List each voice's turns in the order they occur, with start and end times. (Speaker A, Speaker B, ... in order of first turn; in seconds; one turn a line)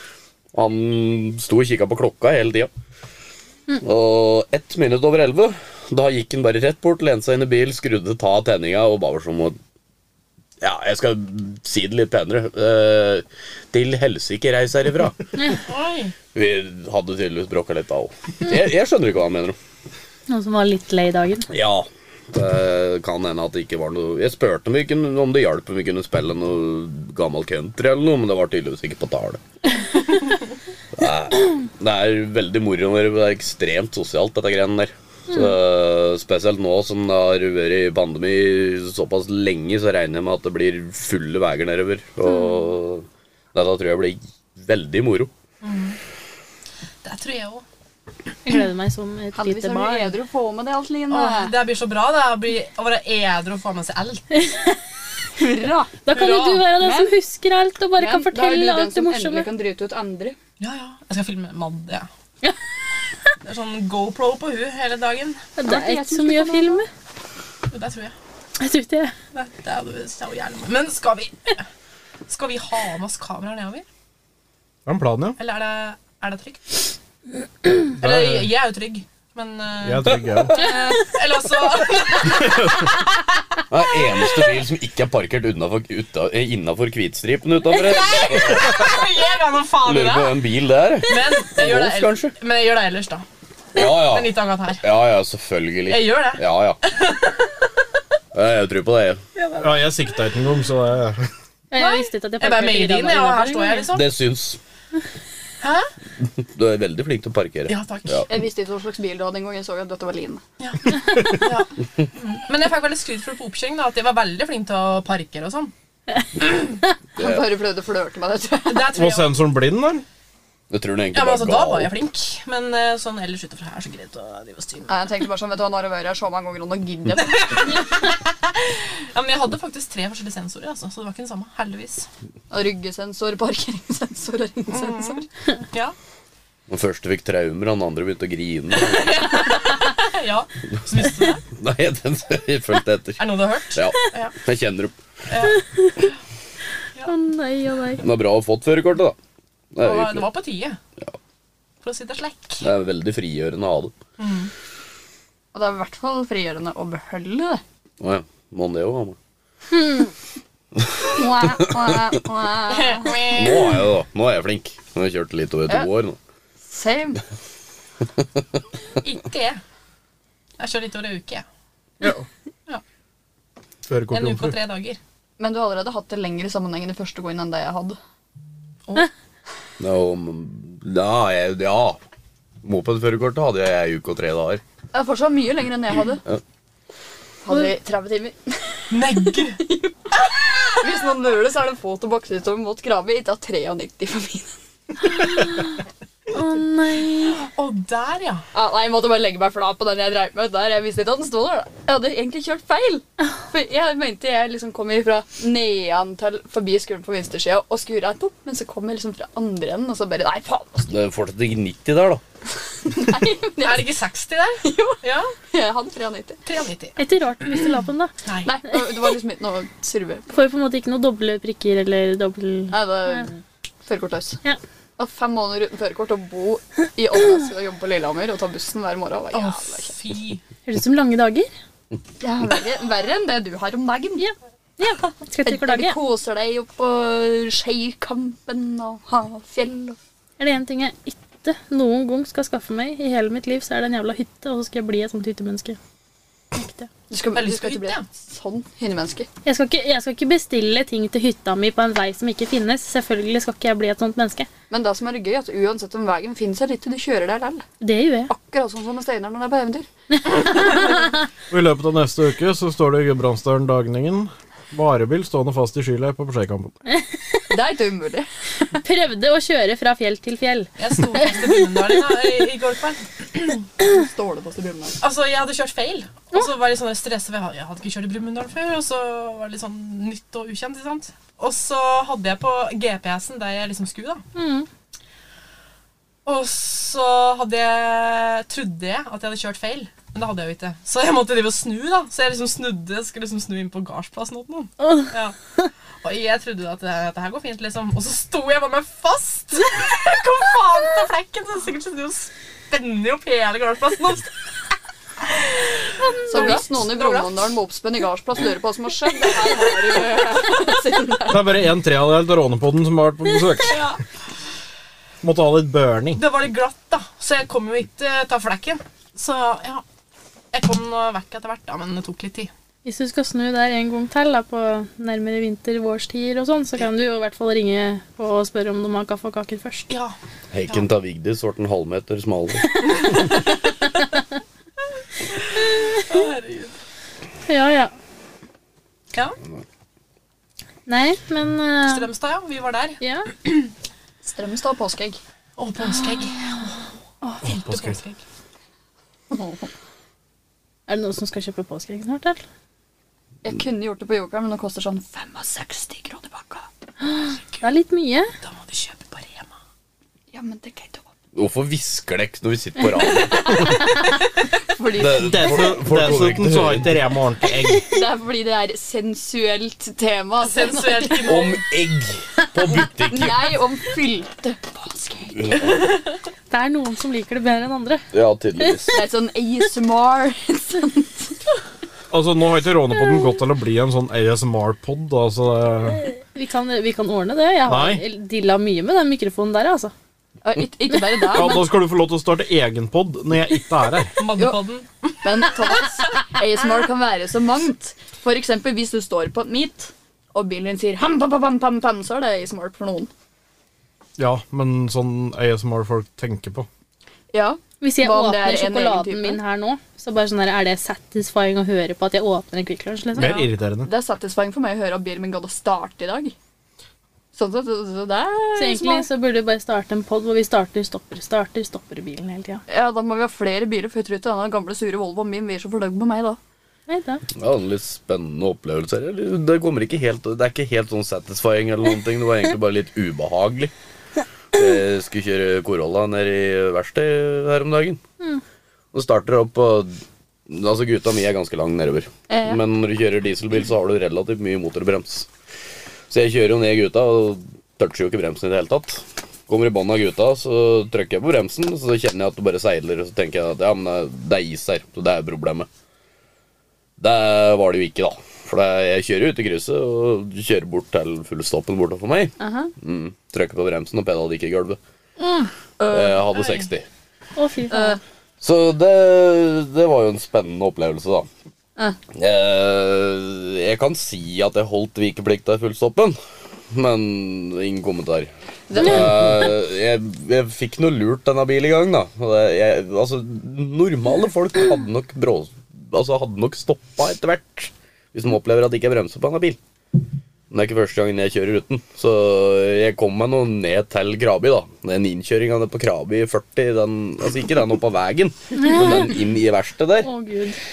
Speaker A: 0.5-2.7
Speaker A: 3.8-9.6
Speaker A: 10.6-15.6
Speaker B: 15.7-16.1
Speaker A: 16.3-19.6
Speaker C: 20.3-21.5
Speaker A: 21.5-29.4
Speaker A: 31.0-45.3
Speaker C: 42.3-42.6
Speaker B: 45.6-46.0
Speaker B: 47.0-47.6
Speaker C: 48.5-50.1
Speaker D: 49.4-51.5
Speaker B: 51.1-54.2
Speaker C: 54.3-54.8
Speaker D: 55.4-56.0
Speaker C: 56.0-59.5
Speaker B: 56.1-56.7
Speaker D: 56.8-57.1
Speaker D: 58.0-60.4
Speaker B: 60.6-62.1
Speaker B: 63.4-65.5
Speaker C: 65.6-66.9
Speaker D: 65.7-66.8
Speaker B: 67.7-68.2
Speaker C: 68.6-69.2
Speaker B: 69.3-71.7
Speaker B: 72.3-73.8
Speaker E: 74.9-75.4
Speaker B: 75.4-76.9
Speaker B: 77.9-83.1
Speaker E: 78.0-78.5
Speaker E: 79.8-80.6
Speaker A: 83.7-89.0
Speaker B: 87.7-90.5
Speaker A: 89.8-92.3
Speaker B: 91.1-94.8
Speaker A: 93.8-96.8
Speaker B: 95.9-97.5
Speaker A: 98.3-99.2
Speaker B: 99.4-99.7
Speaker E: 99.6-101.3
Speaker C: 101.7-103.9
Speaker B: 102.4-104.1
Speaker A: 103.9-104.6
Speaker B: 105.6-105.9
Speaker A: 106.2-108.3
Speaker B: 107.7-108.2
Speaker D: 108.3-110.4
Speaker B: 110.6-111.7
Speaker B: 112.2-115.7
Speaker D: 117.2-119.0
Speaker A: 117.2-117.4
Speaker B: 118.7-119.3
Speaker E: 118.9-120.0
Speaker A: 120.7-121.9
Speaker B: 121.1-125.0
Speaker D: 124.9-127.9
Speaker B: 127.4-132.1
Speaker D: 132.5-135.2
Speaker B: 134.7-135.9
Speaker A: 136.7-139.5
Speaker B: 138.8-141.4
Speaker A: 141.5-144.9
Speaker B: 143.2-144.3
Speaker B: 145.3-146.1
Speaker C: 145.8-146.0
Speaker C: 147.1-148.1
Speaker A: 148.0-149.2
Speaker A: 149.7-150.3
Speaker B: 149.8-150.8
Speaker B: 151.8-152.7
Speaker A: 152.6-153.9
Speaker B: 154.2-154.5
Speaker D: 155.5-157.6
Speaker A: 158.0-159.2
Speaker D: 161.1-163.3
Speaker B: 162.7-163.7
Speaker A: 163.3-166.2
Speaker D: 166.7-167.2
Speaker B: 169.0-169.6
Speaker B: 170.6-171.4
Speaker E: 173.9-174.6
Speaker B: 174.1-175.0
Speaker D: 175.4-178.0
Speaker A: 179.8-182.0
Speaker A: 182.6-184.6
Speaker D: 184.9-186.2
Speaker D: 187.4-194.5
Speaker B: 188.9-189.6
Speaker C: 195.1-195.7
Speaker C: 196.3-197.5
Speaker B: 197.6-198.5
Speaker D: 198.5-210.9
Speaker A: 210.9-212.2
Speaker D: 212.8-214.0
Speaker B: 213.6-215.3
Speaker D: 214.6-216.4
Speaker B: 216.5-218.5
Speaker C: 217.0-218.1
Speaker D: 218.4-220.2
Speaker C: 220.3-223.2
Speaker D: 222.7-224.4
Speaker D: 225.0-229.9
Speaker B: 229.3-230.4
Speaker C: 230.7-231.5
Speaker D: 232.2-234.2
Speaker C: 234.2-236.0
Speaker D: 235.4-240.0
Speaker C: 240.4-245.8
Speaker C: 246.5-246.9
Speaker D: 247.1-249.3
Speaker B: 247.3-248.1
Speaker C: 249.4-254.5
Speaker D: 254.7-257.6
Speaker C: 257.8-258.3
Speaker D: 258.3-259.9
Speaker C: 260.3-261.0
Speaker D: 260.5-260.9
Speaker E: 261.5-266.8
Speaker C: 266.9-267.4
Speaker D: 267.5-268.3
Speaker C: 268.8-271.6
Speaker B: 270.8-273.7
Speaker D: 273.8-275.0
Speaker B: 275.0-284.2
Speaker C: 284.4-284.7
Speaker B: 286.2-295.4
Speaker C: 294.8-295.1
Speaker B: 296.0-304.3
Speaker B: 306.2-307.4
Speaker D: 306.3-311.6
Speaker E: 311.3-313.9
Speaker D: 313.7-314.0
Speaker E: 315.2-316.2
Speaker B: 316.2-319.8
Speaker B: 320.5-322.5
Speaker C: 322.8-329.9
Speaker B: 329.9-330.1
Speaker A: 330.5-333.2
Speaker B: 333.0-333.4
Speaker B: 335.3-336.7
Speaker C: 337.5-337.9
Speaker B: 339.1-339.4
Speaker C: 340.9-342.1
Speaker B: 341.9-343.6
Speaker C: 343.0-343.3
Speaker D: 344.2-345.2
Speaker B: 345.6-346.8
Speaker E: 347.4-348.0
Speaker B: 347.4-348.2
Speaker D: 349.3-349.7
Speaker C: 350.9-352.4
Speaker D: 353.4-356.7
Speaker C: 357.1-358.3
Speaker B: 358.4-359.5
Speaker D: 360.3-361.1
Speaker A: 361.4-364.0
Speaker D: 363.0-364.1
Speaker D: 364.7-366.0
Speaker A: 364.9-366.9
Speaker E: 365.2-367.9
Speaker D: 367.9-371.5
Speaker B: 370.4-371.6
Speaker A: 371.2-373.6
Speaker D: 373.0-375.7
Speaker A: 375.3-376.0
Speaker C: 376.5-378.1
Speaker A: 378.1-379.0
Speaker C: 378.6-378.9
Speaker D: 378.9-381.4
Speaker E: 382.1-386.0
Speaker C: 386.2-389.9
Speaker E: 387.7-388.0
Speaker D: 390.4-391.8
Speaker E: 391.3-394.1
Speaker B: 394.2-395.5
Speaker D: 395.2-403.1
Speaker E: 404.2-406.7
Speaker D: 407.3-409.4
Speaker C: 407.8-413.5
Speaker E: 413.1-413.9
Speaker B: 413.2-413.4
Speaker D: 413.8-416.4
Speaker D: 417.3-419.1
Speaker C: 418.6-422.6
Speaker D: 422.7-426.4
Speaker C: 426.9-427.2
Speaker A: 427.4-433.7
Speaker A: 434.5-438.0
Speaker A: 438.9-439.9
Speaker A: 440.5-445.3
Speaker D: 442.3-442.6
Speaker A: 446.1-455.7
Speaker A: 457.0-464.8
Speaker D: 462.4-462.7
Speaker D: 465.2-466.2
Speaker A: 465.9-466.9
Speaker B: 466.3-466.7
Speaker C: 467.4-468.0
Speaker D: 467.7-468.0
Speaker A: 468.4-471.3
Speaker A: 472.1-476.2
Speaker A: 476.7-489.6
Speaker D: 478.7-479.5
Speaker A: 490.5-500.1
Speaker C: 498.6-499.1
Speaker C: 500.0-500.6